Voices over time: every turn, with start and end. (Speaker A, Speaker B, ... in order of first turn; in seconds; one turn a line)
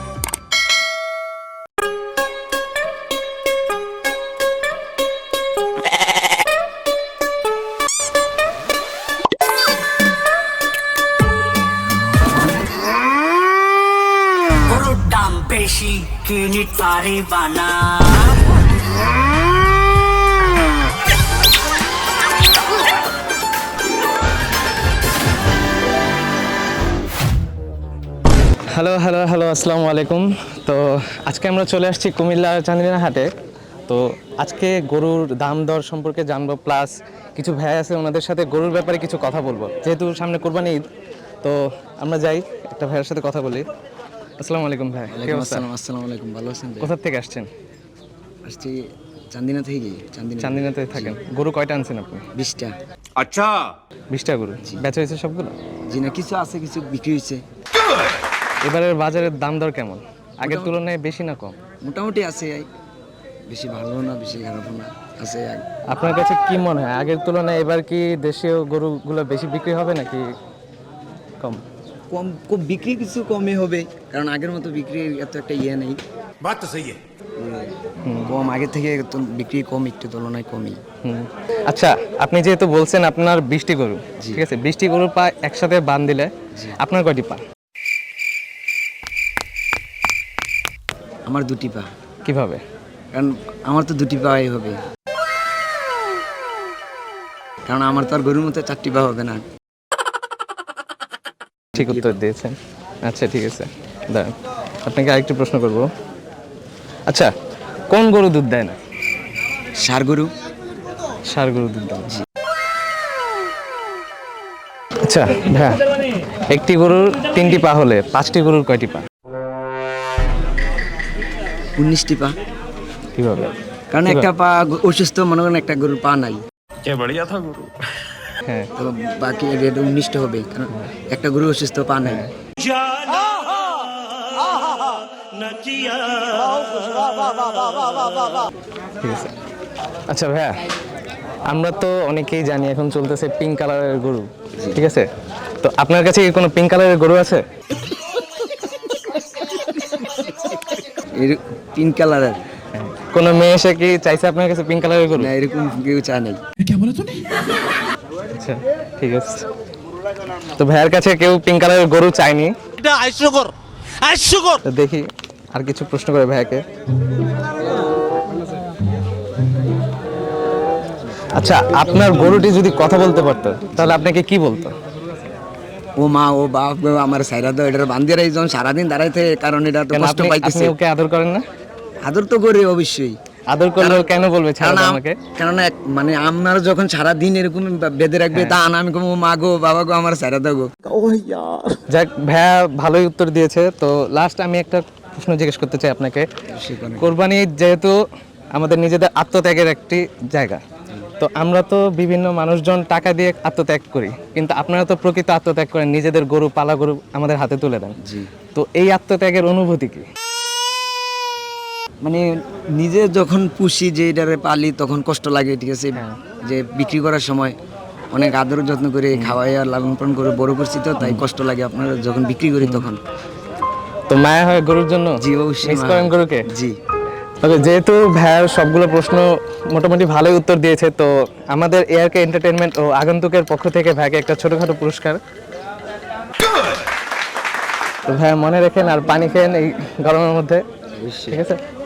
Speaker A: 14.7-18.4
Speaker B: 28.7-33.3
Speaker B: 33.9-40.9
Speaker B: 41.4-43.7
Speaker B: 44.4-45.7
Speaker C: 45.1-46.9
Speaker B: 46.8-47.5
Speaker C: 48.5-51.2
Speaker B: 50.4-52.2
Speaker C: 52.4-52.7
Speaker D: 53.2-53.7
Speaker B: 54.1-55.5
Speaker C: 55.9-57.4
Speaker B: 58.6-61.6
Speaker C: 60.4-60.7
Speaker C: 61.8-62.7
Speaker C: 63.5-65.6
Speaker B: 65.9-70.3
Speaker C: 72.1-76.0
Speaker D: 76.4-77.0
Speaker C: 77.4-80.8
Speaker B: 78.0-78.3
Speaker B: 81.0-87.4
Speaker C: 84.2-84.5
Speaker C: 91.3-91.9
Speaker B: 92.2-92.6
Speaker C: 93.1-94.8
Speaker C: 97.7-99.4
Speaker C: 101.7-102.2
Speaker B: 101.8-105.9
Speaker B: 107.9-108.8
Speaker C: 109.8-110.3
Speaker B: 111.3-112.2
Speaker B: 115.0-115.9
Speaker B: 116.5-119.1
Speaker C: 121.8-122.3
Speaker B: 123.2-123.5
Speaker C: 123.9-126.4
Speaker D: 126.8-127.8
Speaker B: 128.4-128.7
Speaker C: 128.8-132.3
Speaker B: 132.1-132.3
Speaker E: 132.7-133.7
Speaker E: 135.4-137.3
Speaker B: 139.0-139.3
Speaker B: 140.1-140.6
Speaker B: 141.5-145.1
Speaker C: 144.6-144.8
Speaker B: 145.6-147.4
Speaker C: 151.2-152.4
Speaker B: 152.7-155.3
Speaker C: 155.2-156.4
Speaker E: 156.8-157.1
Speaker B: 158.3-159.5
Speaker B: 160.6-162.5
Speaker E: 162.8-164.6
Speaker B: 164.6-166.6
Speaker B: 171.3-174.7
Speaker C: 173.7-174.1
Speaker C: 176.0-180.7
Speaker B: 179.9-181.4
Speaker C: 182.0-183.2
Speaker B: 183.5-185.2
Speaker C: 183.8-191.8
Speaker B: 188.3-188.6
Speaker B: 191.9-196.3
Speaker C: 196.5-197.2
Speaker B: 197.0-197.9
Speaker B: 198.5-200.6
Speaker B: 201.2-208.0
Speaker C: 208.0-208.3
Speaker B: 208.5-210.1
Speaker C: 212.0-217.6
Speaker B: 215.9-216.2
Speaker C: 218.1-223.0
Speaker B: 219.1-219.4
Speaker B: 222.6-222.9
Speaker B: 224.1-226.5
Speaker C: 225.2-226.8
Speaker B: 227.4-235.2
Speaker B: 238.1-240.6
Speaker C: 241.0-241.4
Speaker B: 241.3-241.6